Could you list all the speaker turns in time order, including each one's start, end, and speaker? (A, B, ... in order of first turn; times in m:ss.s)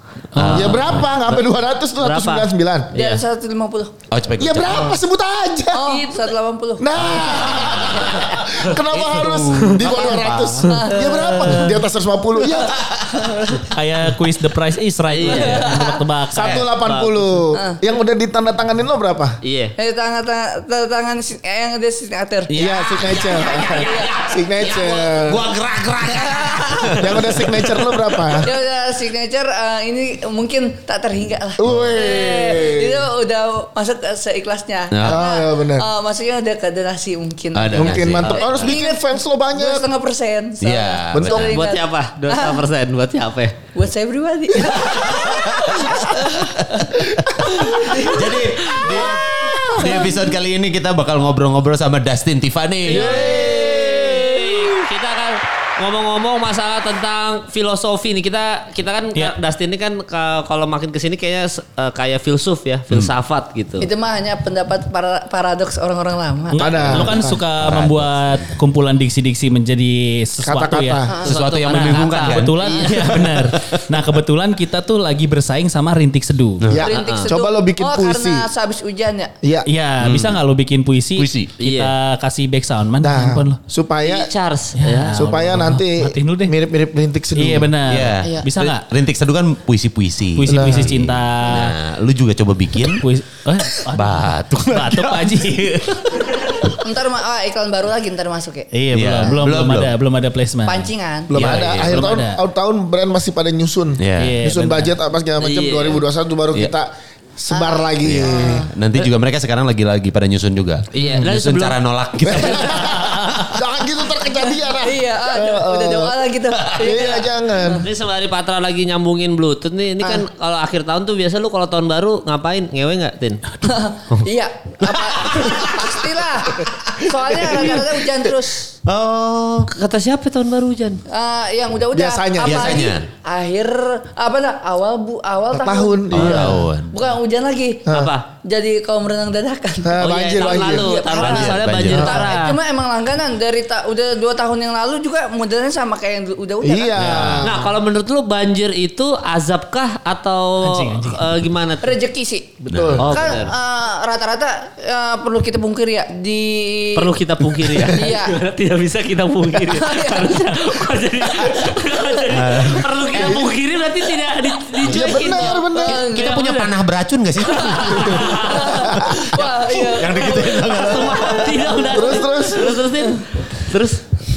0:00.3-0:00.9 A
0:00.4-0:00.9 B
0:00.5-0:02.9 C
0:02.0-0:03.2 D
0:02.9-0:04.0 E
0:04.1-0:05.0 B
0:04.4-0:06.2 C
0:05.7-0:07.2 E
0:06.8-0:12.9 C
0:07.1-0:08.4 B
0:08.9-0:10.7 B
0:09.0-0:10.9 D
0:10.7-0:11.6 E
0:12.6-0:13.3 B
0:13.5-0:16.9 A
0:15.1-0:15.7 D
0:15.3-0:16.0 E
0:16.3-0:19.4 C
0:19.4-0:19.8 D
0:19.8-0:22.7 E
0:22.5-0:22.8 D
0:22.5-0:25.4 C
0:22.8-0:28.0 B
0:23.5-0:24.1 E
0:26.1-0:27.0 E
0:27.0-0:28.5 C
0:28.4-0:42.6 E
0:31.6-0:33.0 C
0:34.9-0:35.2 B
0:35.0-0:35.9 C
0:37.5-0:38.6 B
0:37.7-0:39.9 C
0:40.6-0:41.6 B
0:41.1-0:41.7 C
0:41.4-0:43.6 D
0:43.8-0:47.0 E
0:45.2-0:45.8 B
0:47.2-0:48.0 C
0:47.4-0:53.4 B
0:47.6-0:48.1 E
0:52.9-1:03.9 D
0:52.9-0:54.7 C
1:03.8-1:06.6 E
1:06.5-1:11.0 A
1:06.6-1:07.4 C
1:07.6-1:08.5 B
1:10.4-1:11.3 C
1:11.1-1:11.4 E
1:11.2-1:13.8 B
1:11.3-1:13.5 D
1:11.6-1:16.7 A
1:16.6-1:16.9 B
1:16.7-1:18.5 C
1:16.8-1:19.3 E
1:16.9-1:17.3 D
1:19.4-1:19.7 C
1:19.6-1:23.6 A
1:20.0-1:20.4 B
1:21.2-1:21.5 B
1:21.6-1:21.9 D
1:23.0-1:24.3 C
1:24.0-1:25.3 D
1:24.8-1:26.6 A
1:25.2-1:27.8 C
1:27.4-1:28.9 A
1:27.9-1:33.0 B
1:30.4-1:31.8 A
1:30.5-1:30.9 C
1:32.9-1:36.8 A
1:33.8-1:35.4 B
1:36.8-1:38.7 E
1:38.7-1:40.9 A
1:38.9-1:39.9 B
1:40.6-1:41.6 E
1:41.3-1:48.7 C
1:41.3-1:42.1 B
1:41.7-1:42.4 A
1:44.0-1:44.4 B
1:44.2-1:44.9 A
1:45.4-1:46.0 D
1:47.5-1:48.7 E
1:48.0-1:53.6 B
1:50.9-1:51.8 D
1:52.2-1:57.8 C
1:53.0-1:53.4 A
1:54.8-1:57.9 E
1:57.7-2:03.4 D
2:03.6-2:08.7 E
2:04.8-2:06.0 B
2:06.7-2:07.8 B
2:08.9-2:09.7 B
2:09.7-2:11.0 D
2:11.1-2:17.9 E
2:11.9-2:12.9 C
2:12.4-2:13.1 B
2:15.5-2:16.7 C
2:16.1-2:16.9 B
2:16.2-2:16.5 D
2:17.9-2:18.1 C
2:17.9-2:18.3 D
2:18.4-2:27.3 E
2:19.8-2:21.0 C
2:20.0-2:22.6 D
2:21.2-2:22.2 B
2:21.9-2:22.2 C
2:26.6-2:27.7 C
2:27.0-2:27.4 A
2:27.4-2:32.0 D
2:30.6-2:31.4 A
2:31.8-2:37.1 E
2:32.6-2:33.1 C
2:32.7-2:33.1 B
2:33.0-2:33.5 D
2:37.0-2:46.7 D
2:37.9-2:38.4 E
2:39.7-2:40.8 E
2:42.3-2:42.9 B
2:43.1-2:43.5 C
2:44.8-2:46.1 C
2:45.0-2:46.6 E
2:45.9-2:48.4 B
2:47.5-2:48.9 D
2:47.6-2:50.6 E
2:48.9-2:51.7 B
2:50.1-2:54.0 D
2:51.9-2:52.7 C